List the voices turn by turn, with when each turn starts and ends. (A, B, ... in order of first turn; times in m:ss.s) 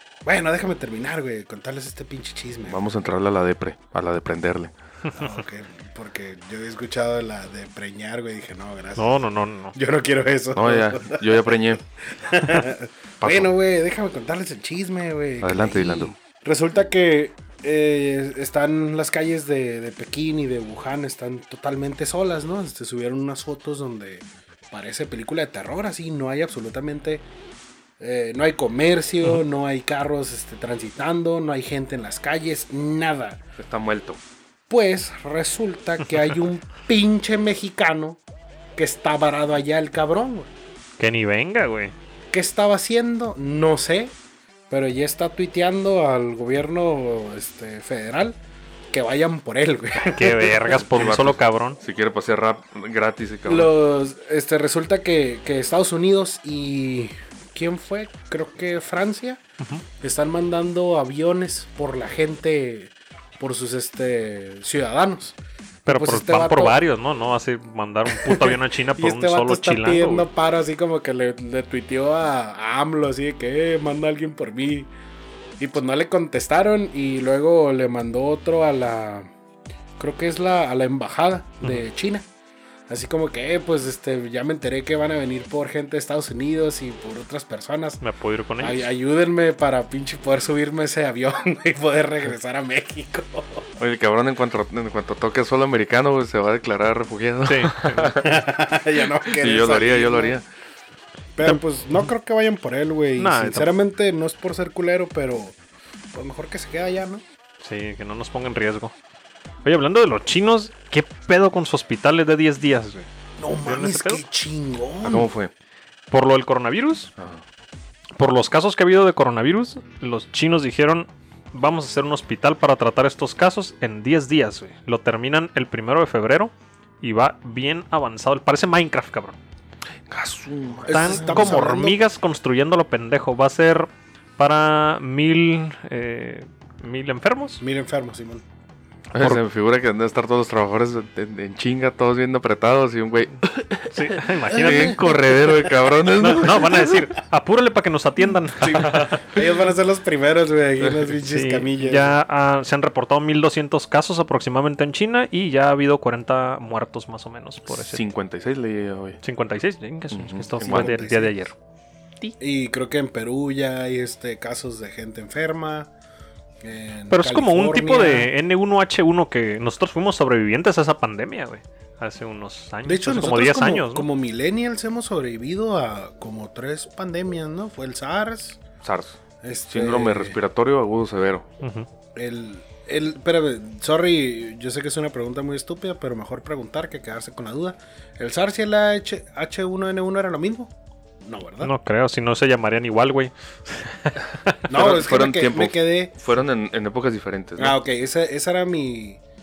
0:00.2-0:02.8 A
0:02.6-0:04.7 B
0:05.1-0:27.2 A
0:09.0-0:09.8 C
0:10.5-0:11.8 B
0:13.2-0:13.5 B
0:15.4-0:16.1 B
0:28.0-0:33.4 A
0:33.6-0:34.2 B
0:34.7-0:38.2 A
0:38.8-0:40.5 A
0:41.0-0:41.9 C
0:42.3-0:44.1 A
0:44.7-0:48.4 A
0:48.9-0:50.7 A
0:50.1-0:51.8 C
0:50.9-0:53.7 B
0:53.4-0:59.4 A
1:00.0-1:06.8 A
1:05.9-1:10.3 C
1:08.1-1:14.9 A
1:15.6-1:19.3 A
1:20.0-1:22.2 A
1:22.9-1:28.0 A
1:28.0-1:28.9 C
1:28.6-1:33.7 A
1:33.8-1:38.3 B
1:37.4-1:38.1 C
1:38.2-1:40.4 A
1:39.2-1:40.4 B
1:41.4-1:45.6 A
1:43.2-1:43.7 C
1:46.1-1:47.2 A
1:47.6-1:48.9 C
1:49.6-1:53.1 C
1:53.4-1:55.3 A
1:53.6-1:54.2 C
1:55.0-1:55.5 B
1:56.1-1:57.1 C
1:57.2-1:57.4 B
1:58.2-2:09.4 C
2:10.1-2:11.5 B
2:10.8-2:12.0 A
2:10.9-2:17.6 C
2:17.6-2:18.4 A
2:19.2-2:27.0 B
2:23.9-2:25.0 C
2:24.5-2:25.9 A
2:26.2-2:29.2 C
2:26.4-2:26.9 A
2:28.6-2:32.2 A
2:30.8-2:31.1 B
2:31.3-2:38.0 C
2:37.7-2:39.2 B
2:39.2-2:41.5 C
2:40.1-2:41.0 B
2:40.6-2:41.4 A
2:42.4-2:45.9 A
2:46.6-2:48.3 A
2:47.1-2:54.1 C
2:52.8-2:58.6 A
2:58.8-2:59.2 B
2:59.4-3:00.4 A
2:59.7-3:01.4 B
3:01.6-3:01.9 C
3:02.1-3:11.7 A
3:11.6-3:14.5 C
3:14.7-3:16.1 A
3:14.7-3:17.8 B
3:17.6-3:19.2 A